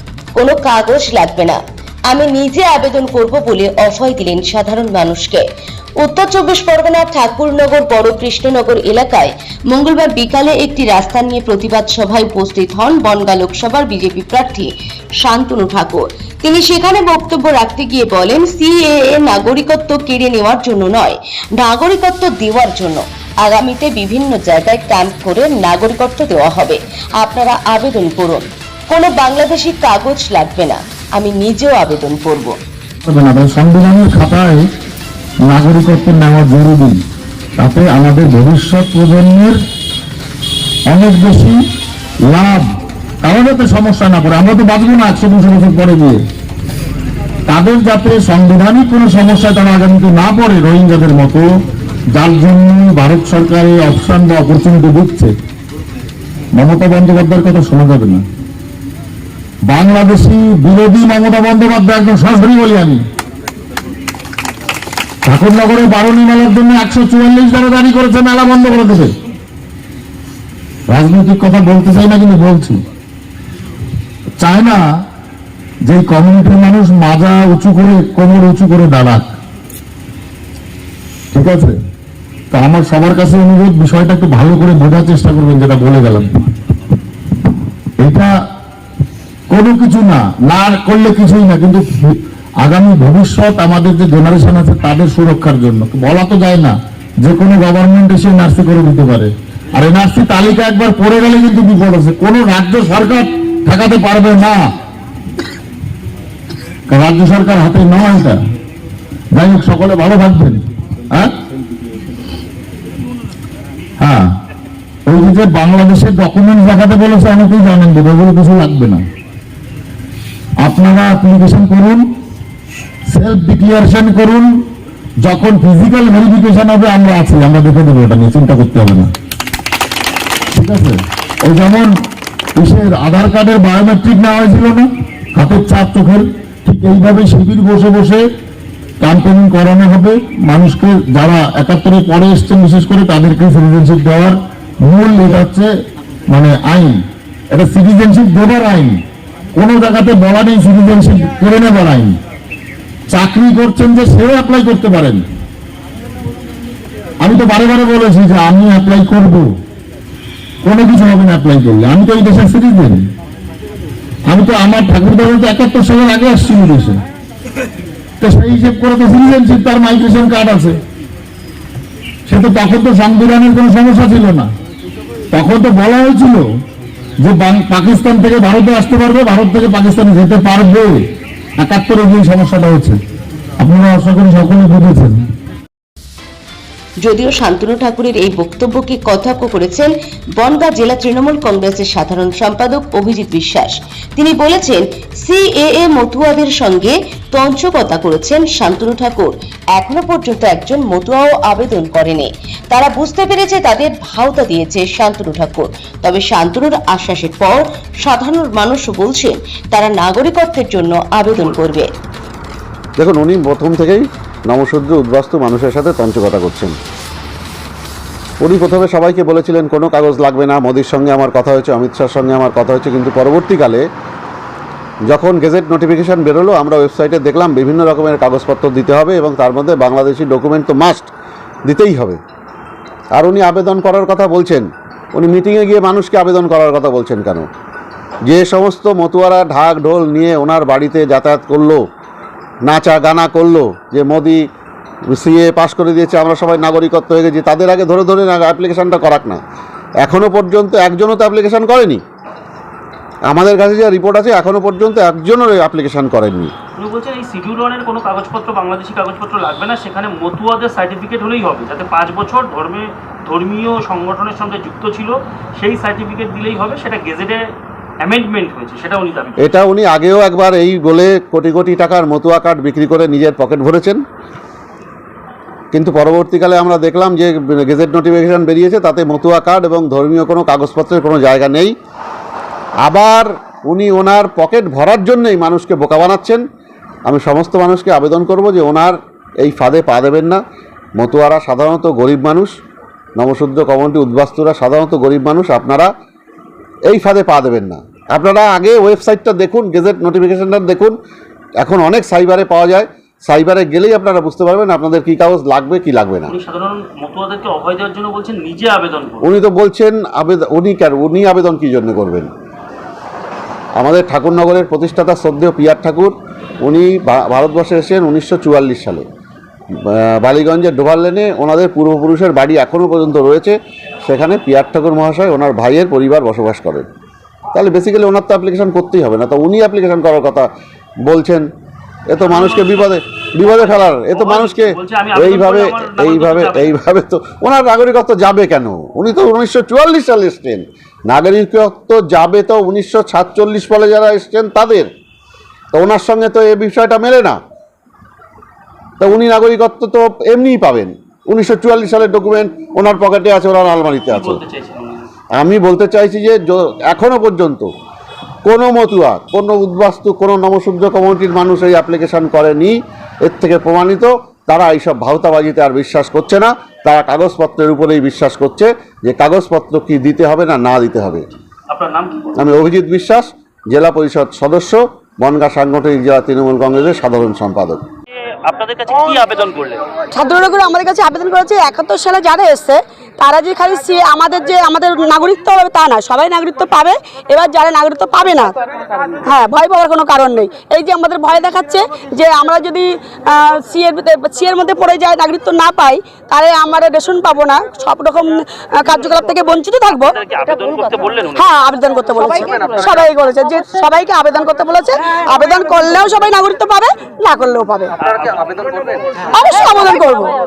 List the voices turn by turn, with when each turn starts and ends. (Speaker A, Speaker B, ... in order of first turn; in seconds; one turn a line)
Speaker A: 0.4-5.4
Speaker A: 6.0-14.7
Speaker A: 15.2-32.5
Speaker B: 33.0-34.6
Speaker B: 35.4-37.0
Speaker B: 37.6-39.6
Speaker B: 40.9-41.6
Speaker B: 42.3-42.6
Speaker B: 43.2-46.2
Speaker B: 47.5-51.5
Speaker B: 52.1-55.3
Speaker B: 56.5-58.2
Speaker B: 59.7-63.0
Speaker B: 65.2-69.1
Speaker B: 70.9-72.8
Speaker B: 74.4-74.8
Speaker B: 75.8-79.2
Speaker B: 81.3-81.8
Speaker B: 82.5-86.5
Speaker B: 88.0-88.3
Speaker B: 89.5-104.6
Speaker B: 106.9-108.4
Speaker B: 109.3-110.6
Speaker B: 115.1-119.0
Speaker B: 120.6-122.0
Speaker B: 123.1-124.5
Speaker B: 125.2-129.1
Speaker B: 130.5-131.9
Speaker B: 132.6-138.2
Speaker B: 139.0-145.7
Speaker B: 146.3-147.0
Speaker B: 147.5-149.0
Speaker B: 149.5-152.2
Speaker B: 153.1-155.2
Speaker B: 157.2-159.4
Speaker B: 160.6-163.0
Speaker B: 164.3-167.0
Speaker B: 168.2-170.8
Speaker B: 172.3-174.5
Speaker B: 175.3-176.4
Speaker B: 177.2-181.0
Speaker B: 181.6-183.0
Speaker B: 183.6-185.2
Speaker A: 187.0-211.9
Speaker C: 213.0-216.8
Speaker C: 218.4-223.8
Speaker C: 225.1-231.1
Speaker C: 231.7-232.2
Speaker C: 233.1-237.5
Speaker C: 238.3-241.8
Speaker C: 242.7-244.4
Speaker C: 245.1-249.4
Speaker C: 250.0-252.0
Speaker C: 253.3-256.5
Speaker D: 256.8-267.4
Speaker D: 268.0-269.5
Speaker C: 269.4-274.0
Speaker C: 275.7-281.7
Speaker C: 282.8-286.4
Speaker C: 287.1-290.4
Speaker C: 291.0-292.5
Speaker C: 293.2-295.9
Speaker C: 296.9-300.9
Speaker C: 301.6-306.3
Speaker D: 306.3-309.3
Speaker C: 309.2-312.3
Speaker C: 313.8-319.0
Speaker C: 319.8-326.9
Speaker C: 327.5-330.5
Speaker C: 331.1-331.5
Speaker C: 332.1-344.9
Speaker D: 332.2-336.7
Speaker C: 345.7-347.4
Speaker C: 349.0-354.4
Speaker D: 354.1-355.1
Speaker C: 355.4-357.7
Speaker C: 358.4-371.3
Speaker D: 371.7-372.3
Speaker C: 372.4-377.8
Speaker D: 378.4-379.8
Speaker E: 380.1-388.5
Speaker E: 389.2-400.1
Speaker D: 399.9-401.4
Speaker E: 401.4-407.9
Speaker D: 408.0-408.9
Speaker E: 409.3-410.4